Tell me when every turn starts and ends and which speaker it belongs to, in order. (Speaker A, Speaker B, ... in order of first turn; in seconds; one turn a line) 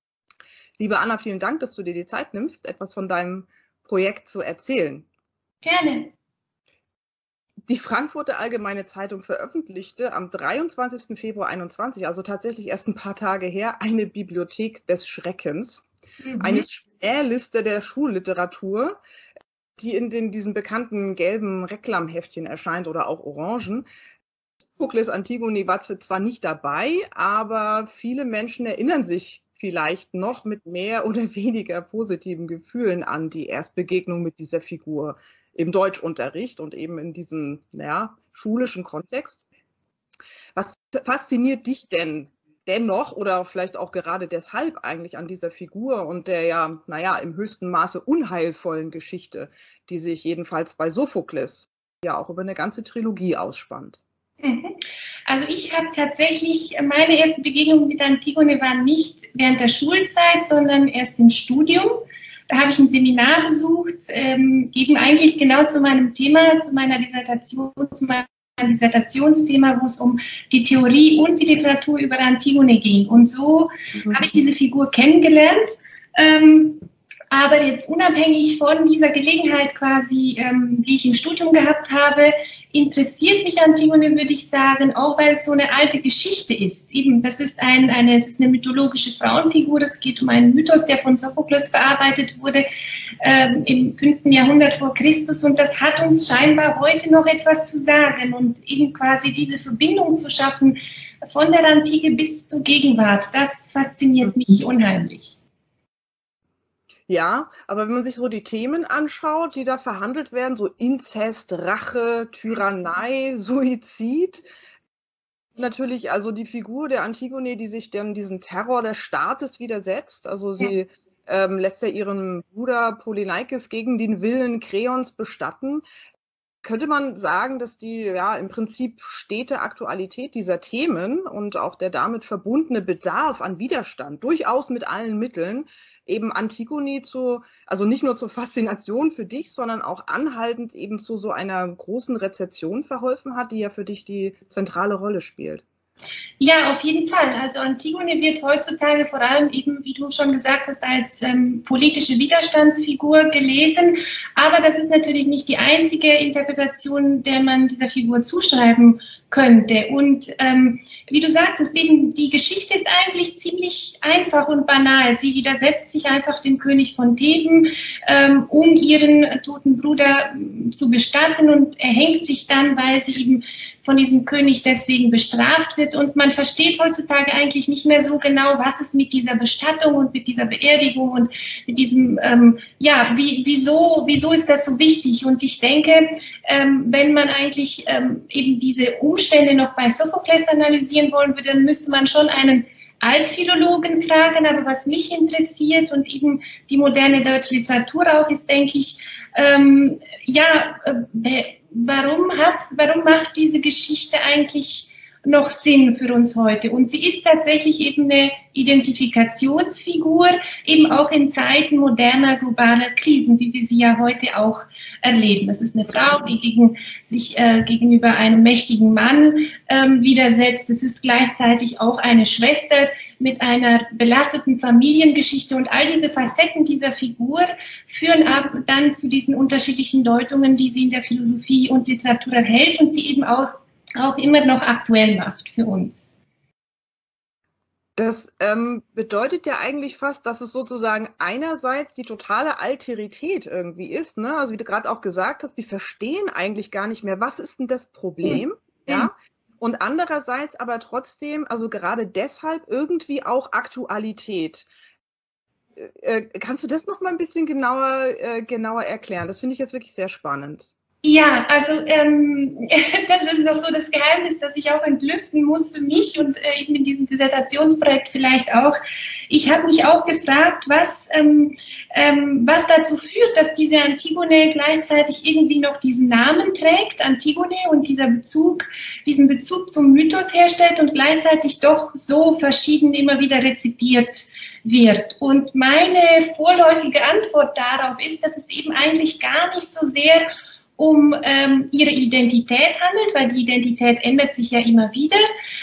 Speaker A: 0.8-5.1
Speaker B: 5.6-6.1
Speaker A: 7.7-15.9
Speaker B: 16.2-16.7
Speaker A: 16.4-19.0
Speaker A: 19.8-23.9
Speaker A: 24.6-39.5
Speaker A: 40.5-54.0
Speaker B: 54.4-54.8
Speaker B: 55.3-92.7
Speaker A: 74.0-74.3
Speaker B: 93.2-105.4
Speaker A: 107.1-114.5
Speaker A: 115.6-125.8
Speaker A: 126.6-145.6
Speaker B: 146.4-236.1
Speaker A: 238.0-254.7
Speaker B: 248.3-249.1
Speaker A: 255.8-260.7
Speaker B: 261.0-268.8
Speaker B: 269.3-295.2